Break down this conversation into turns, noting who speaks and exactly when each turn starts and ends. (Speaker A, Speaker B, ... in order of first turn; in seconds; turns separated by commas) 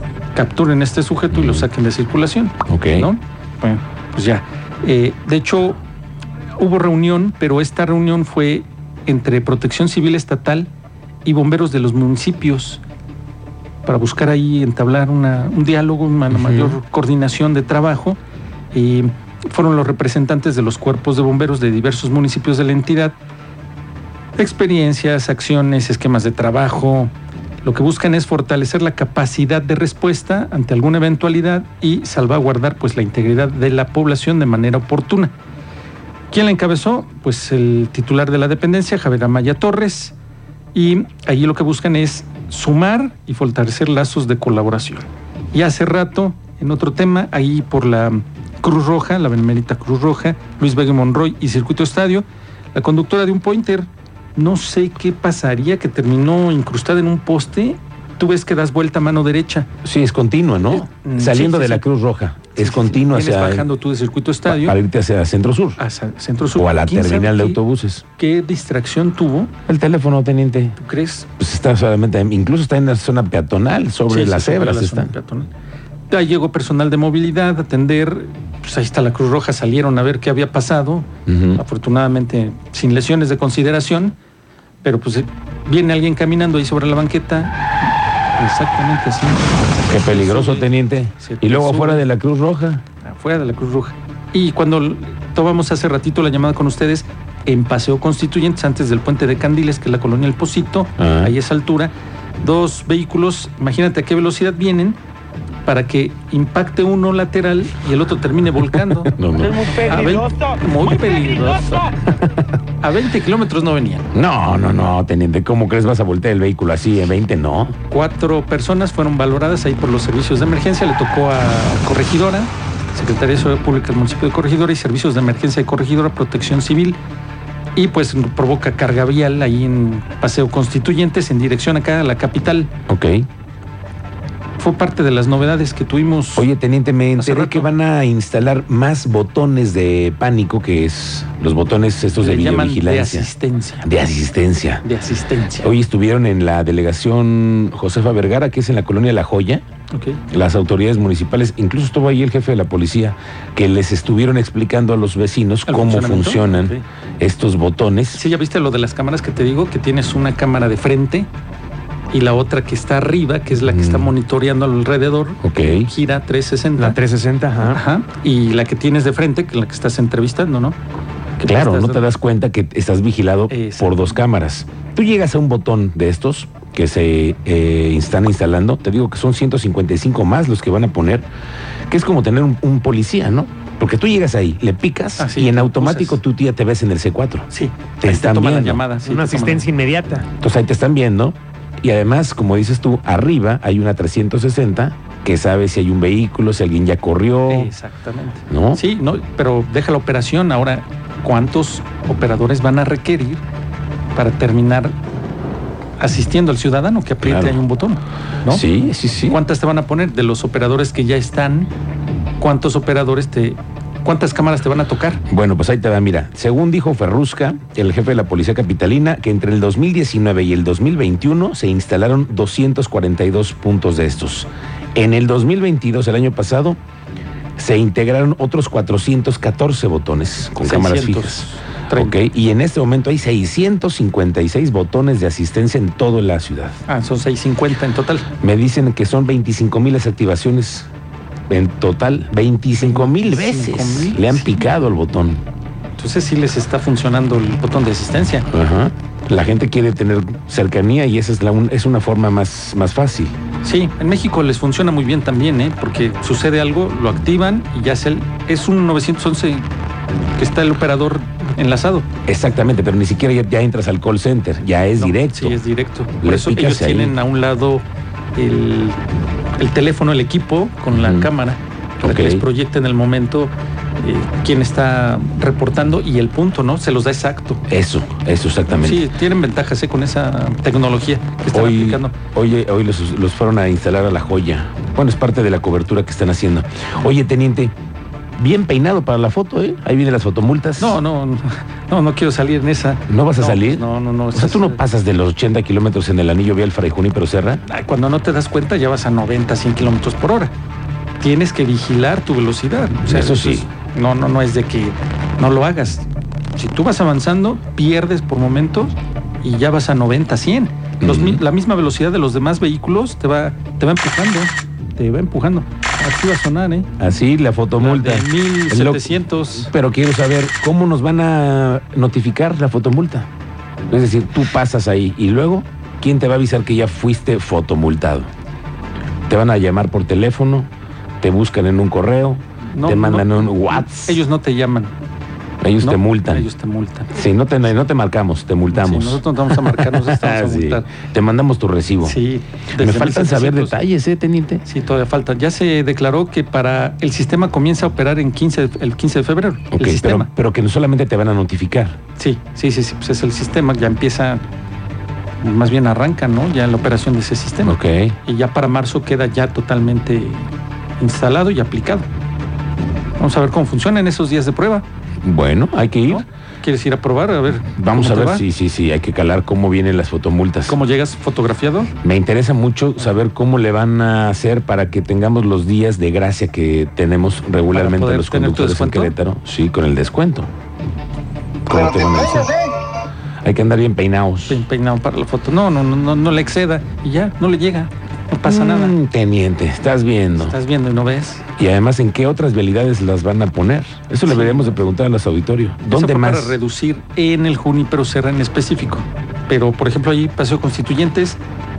Speaker A: 0.3-5.8, Speaker B: 1.3-1.7, Speaker B: 2.6-3.1, Speaker A: 6.5-10.7, Speaker A: 11.2-12.8, Speaker A: 13.8-18.2, Speaker B: 16.3-16.8, Speaker A: 18.7-23.2, Speaker A: 24.4-35.3, Speaker A: 36.3-40.1, Speaker A: 40.7-59.7, Speaker B: 59.8-63.7, Speaker A: 60.7-61.8, Speaker A: 62.5-64.8, Speaker B: 64.5-65.8, Speaker A: 65.8-67.6, Speaker B: 66.5-68.0, Speaker A: 68.2-69.5, Speaker B: 69.7-70.8, Speaker A: 70.8-71.3, Speaker B: 71.4-75.1, Speaker A: 74.1-75.5, Speaker A: 76.1-84.2, Speaker B: 81.3-81.6, Speaker A: 84.8-87.6, Speaker A: 88.3-92.0, Speaker B: 89.8-92.8, Speaker A: 93.0-105.0, Speaker B: 101.0-101.4, Speaker A: 105.6-112.0, Speaker B: 109.0-109.8, Speaker A: 112.8-114.1, Speaker B: 114.1-117.8, Speaker A: 117.9-127.0, Speaker A: 127.7-132.7, Speaker B: 132.9-133.3, Speaker A: 134.6-136.5, Speaker B: 136.3-143.3, Speaker A: 137.2-137.7, Speaker A: 142.2-143.9, Speaker B: 143.8-144.8, Speaker A: 144.8-145.7, Speaker B: 145.6-149.6, Speaker A: 149.9-150.2, Speaker B: 150.3-158.2, Speaker A: 155.7-156.8, Speaker A: 158.1-161.3, Speaker A: 162.1-167.0, Speaker B: 163.6-164.1, Speaker B: 165.4-165.9, Speaker C: 166.8-167.8, Speaker A: 167.6-170.8, Speaker A: 171.4-172.1, Speaker B: 171.4-181.3, Speaker A: 173.5-174.2, Speaker B: 181.9-187.5, Speaker A: 185.2-186.2, Speaker A: 187.5-189.7, Speaker B: 188.0-188.8, Speaker C: 189.0-190.3, Speaker B: 190.4-197.7, Speaker A: 197.5-203.4, Speaker B: 198.5-198.8, Speaker A: 204.1-205.0, Speaker A: 206.0-208.6, Speaker B: 207.2-207.6, Speaker B: 208.5-209.4, Speaker A: 209.3-211.7, Speaker A: 212.4-215.2, Speaker B: 215.3-226.8, Speaker B: 227.6-236.8, Speaker A: 230.6-232.2, Speaker A: 236.9-238.3, Speaker B: 238.4-240.9, Speaker B: 241.5-245.4, Speaker A: 242.8-244.6, Speaker A: 246.0-248.5, Speaker B: 248.5-253.3, Speaker A: 253.6-259.7, Speaker A: 260.4-262.1, Speaker B: 262.3-265.6, Speaker A: 265.0-267.8, Speaker B: 266.2-267.1, Speaker A: 268.4-269.0, Speaker A: 269.6-277.6, Speaker B: 270.9-271.3, Speaker B: 272.0-272.4, Speaker B: 277.7-279.1, Speaker A: 278.7-282.1, Speaker B: 281.5-287.7, Speaker B: 288.4-291.0, Speaker A: 290.8-294.8, Speaker B: 293.1-297.6, Speaker A: 297.6-300.5, Speaker A: 301.2-316.9, Speaker B: 303.0-303.7, Speaker B: 311.0-311.4, Speaker B: 317.0-323.3, Speaker A: 317.8-319.7, Speaker B: 323.9-328.3, Speaker B: 329.3-330.7, Speaker B: 331.2-334.2, Speaker A: 332.7-334.9, Speaker B: 335.6-336.5, Speaker A: 335.8-337.1, Speaker B: 337.1-342.2, Speaker A: 338.7-340.9, Speaker A: 342.0-343.8, Speaker B: 342.7-344.6, Speaker A: 344.6-350.3, Speaker B: 349.7-352.0, Speaker A: 352.1-354.4, Speaker A: 355.4-360.5, Speaker B: 357.6-358.2, Speaker A: 361.0-362.1, Speaker A: 363.2-364.9, Speaker B: 365.2-366.2, Speaker A: 366.1-368.4, Speaker B: 367.5-370.8, Speaker A: 370.6-371.9, Speaker B: 372.0-380.5, Speaker A: 377.7-379.1, Speaker B: 381.7-382.7, Speaker B: 383.4-384.6, Speaker A: 384.5-388.9, Speaker B: 388.4-390.6, Speaker A: 390.3-391.4, Speaker B: 391.6-396.6, Speaker A: 394.2-394.8, Speaker A: 395.9-401.4